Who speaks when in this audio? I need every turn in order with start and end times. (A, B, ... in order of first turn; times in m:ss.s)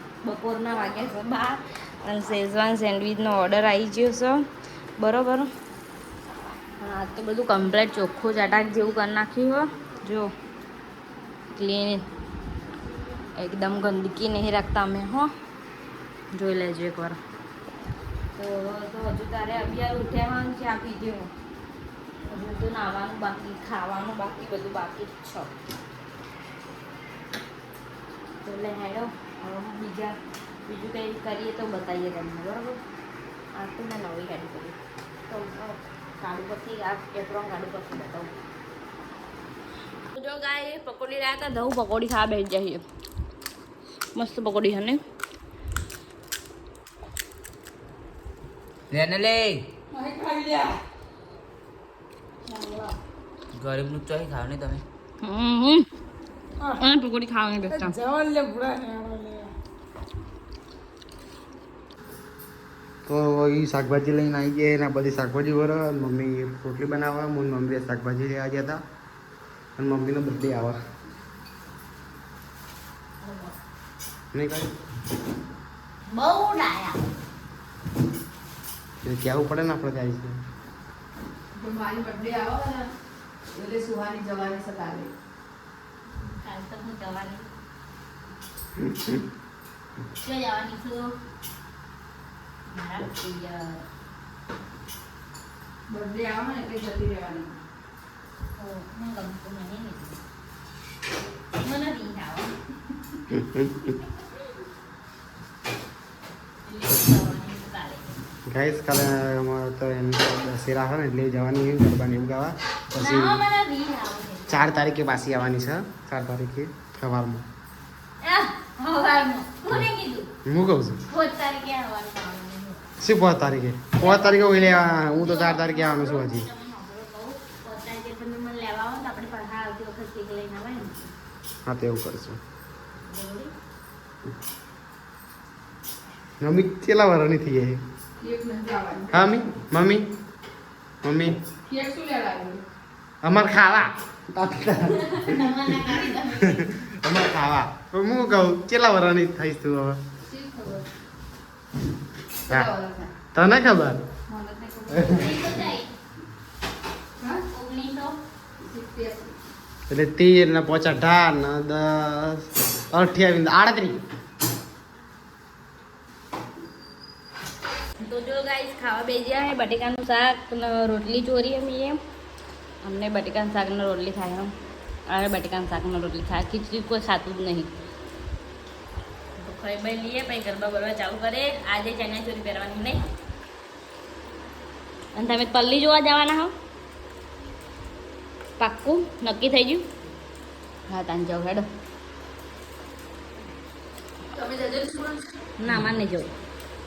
0:00.2-0:04.4 A
0:05.0-0:05.5 A
0:06.8-0:10.3 A
0:11.5-0:12.0 A
0:13.3-0:15.3 A
0:16.3-0:17.2 A
0:18.4-0:21.3 A
0:22.3-0:25.5 A
0:28.4-0:32.8 A
0:33.5-0:34.8 A
0:35.3-0:38.3 A
0:40.1-0:42.8 A
0:44.1-0:45.0 A
0:48.9-0:49.6 B
0:49.9-0:50.8 C
0:52.6-0:52.9 C
0:53.5-0:54.8 B
0:55.2-0:55.9 A
0:56.8-0:58.0 A
0:58.1-0:59.2 C
1:03.0-1:08.8 D
1:09.8-1:10.8 D
1:13.2-1:13.5 A
1:14.3-1:14.7 D
1:16.1-1:17.0 A
1:19.0-1:20.4 D
1:21.5-1:22.9 C
1:23.5-1:25.1 C
1:26.2-1:27.5 A
1:28.8-1:29.2 D
1:30.2-1:31.1 A
1:32.7-1:33.8 A
1:35.9-1:37.5 C
1:38.6-1:40.2 A
1:41.5-1:42.5 A
1:43.3-1:43.7 D
1:46.6-1:48.2 A
1:48.5-1:53.4 D
1:52.9-1:54.8 A
1:54.5-1:57.4 D
1:58.2-2:00.3 A
2:00.4-2:01.0 D
2:01.1-2:02.8 A
2:03.0-2:06.5 D
2:04.0-2:11.1 A
2:11.6-2:12.4 D
2:13.0-2:13.5 A
2:16.4-2:17.8 D
2:18.2-2:19.4 C
2:19.1-2:20.1 D
2:21.0-2:21.4 D
2:21.7-2:22.6 C
2:23.2-2:25.7 D
2:25.0-2:26.7 A
2:26.3-2:30.0 D
2:30.2-2:30.9 C
2:32.5-2:33.1 C
2:33.3-2:34.0 D
2:34.3-2:35.3 C
2:34.9-2:35.3 D
2:35.1-2:35.9 A
2:37.5-2:38.2 A
2:38.6-2:39.3 C
2:39.9-2:44.0 D
2:48.0-2:52.0 A
2:52.8-2:54.5 A
2:55.1-2:57.7 A
2:59.4-3:03.1 A
3:05.1-3:06.5 A
3:08.6-3:09.8 A
3:10.9-3:11.7 A
3:14.3-3:15.3 C
3:15.6-3:16.3 A
3:15.7-3:15.9 D